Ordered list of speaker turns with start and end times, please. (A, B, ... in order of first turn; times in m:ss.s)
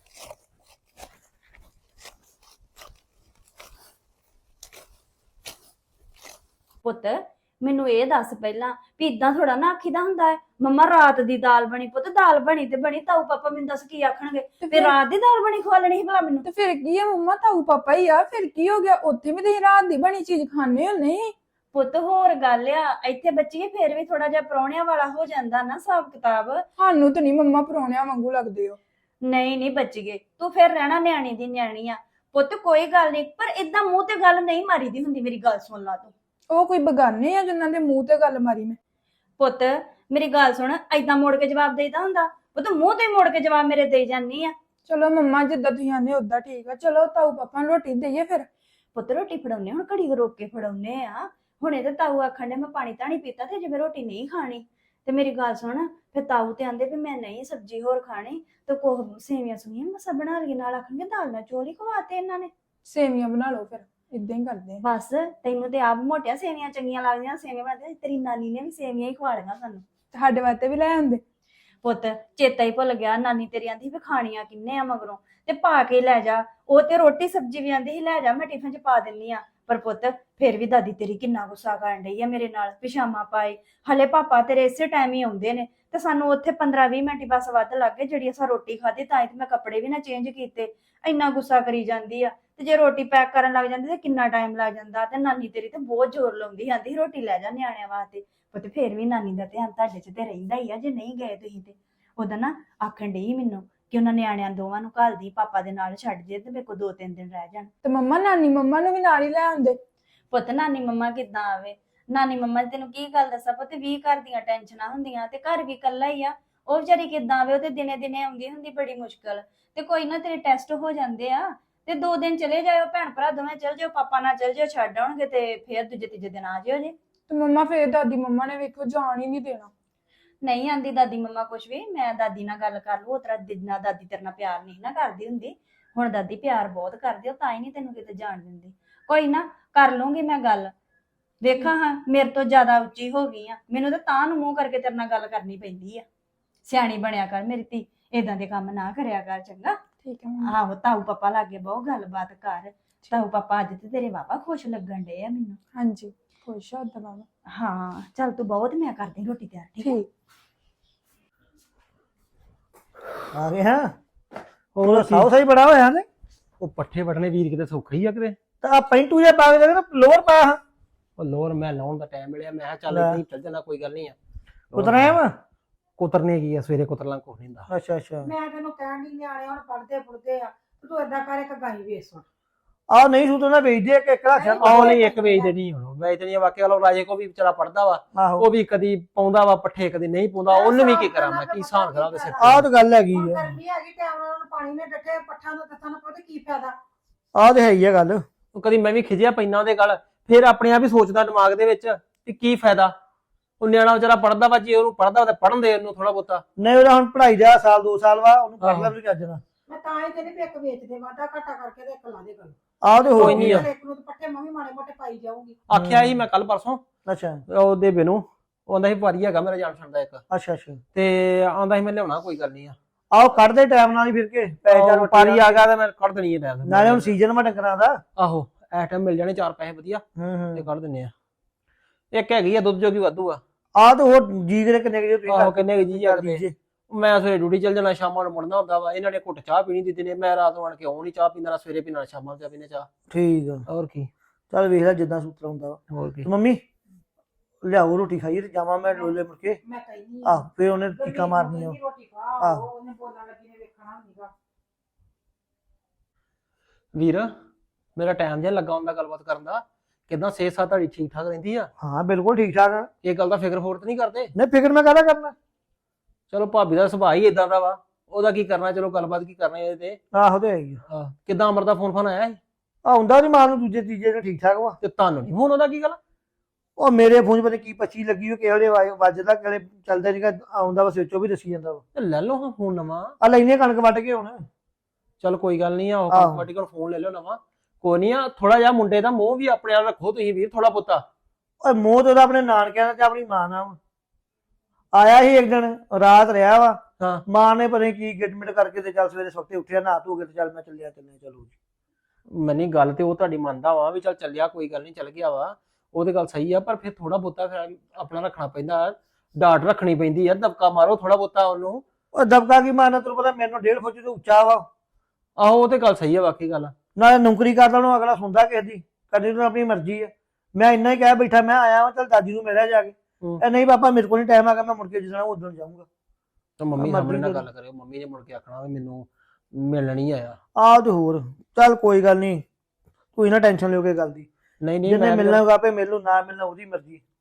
0:06.8-0:16.4 A
0:14.6-0:15.0 B
0:16.4-0:21.3 B
0:21.7-0:26.6 A
0:26.8-0:28.8 B
0:29.2-0:36.1 A
0:36.5-0:38.8 B
0:39.4-0:44.5 A
0:44.9-0:48.4 B
0:48.9-1:02.5 A
1:02.8-1:04.8 B
1:04.8-1:09.8 A
1:10.1-1:11.2 B
1:11.8-1:47.7 A
1:47.8-1:49.8 B
1:50.3-2:06.9 A
2:07.3-2:09.7 B
2:10.4-2:20.7 A
2:21.4-2:26.0 A
2:26.6-2:29.8 A
2:30.0-2:30.5 B
2:30.5-2:35.6 A
2:35.7-2:37.2 B
2:37.5-2:40.0 A
2:39.8-2:40.1 B
2:43.3-2:43.9 C
2:44.7-2:45.3 D
2:44.8-2:46.0 C
2:46.6-2:48.4 D
2:48.6-2:50.6 C
2:51.2-2:54.2 D
2:52.9-2:53.2 C
2:54.7-2:55.2 D
2:54.7-2:55.3 C
2:56.0-2:57.7 D
2:57.7-2:58.3 C
2:58.2-3:02.2 E
3:02.9-3:05.0 C
3:04.3-3:05.5 E
3:04.6-3:12.7 D
3:08.1-3:08.5 C
3:10.5-3:16.8 E
3:12.4-3:13.5 C
3:17.3-3:18.2 C
3:18.5-3:22.9 D
3:23.6-3:26.4 D
3:26.6-3:29.4 C
3:28.6-3:28.9 D
3:29.7-3:35.6 E
3:32.8-3:33.7 C
3:33.2-3:33.7 D
3:35.7-3:36.8 D
3:35.7-3:36.2 C
3:37.0-3:37.4 C
3:37.5-3:40.2 D
3:40.3-3:40.8 C
3:40.9-3:42.8 D
3:43.1-3:45.5 C
3:44.7-3:47.1 D
3:46.6-3:48.0 C
3:48.2-3:50.0 D
3:50.2-3:50.6 C
3:50.5-3:51.1 D
3:52.1-3:53.4 D
3:53.8-3:56.5 C
3:55.3-4:02.9 D
4:03.1-4:03.6 C
4:03.7-4:04.1 D
4:04.5-4:06.6 C
4:05.9-4:06.3 D
4:07.6-4:09.6 C
4:08.9-4:14.3 E
4:10.2-4:11.8 C
4:12.4-4:12.6 C
4:16.9-4:17.3 D
4:18.0-4:21.7 D
4:21.8-4:22.9 C
4:23.0-4:24.3 D
4:24.3-4:25.3 C
4:26.3-4:30.0 D
4:30.1-4:30.8 C
4:30.9-4:32.4 D
4:32.8-4:34.8 C
4:34.8-4:36.0 D
4:36.8-4:41.8 C
4:41.9-4:43.1 D
4:43.2-4:44.4 C
4:45.2-4:51.0 D
4:46.1-4:46.4 C
4:51.6-4:53.8 C
4:54.9-5:01.5 C
5:02.3-5:11.8 D
5:12.1-5:14.6 C
5:15.4-5:16.7 D
5:17.0-5:25.8 C
5:26.6-5:30.4 D
5:26.8-5:27.4 C
5:30.6-5:32.4 C
5:33.2-5:34.3 C
5:34.6-5:35.4 D
5:34.8-5:37.0 C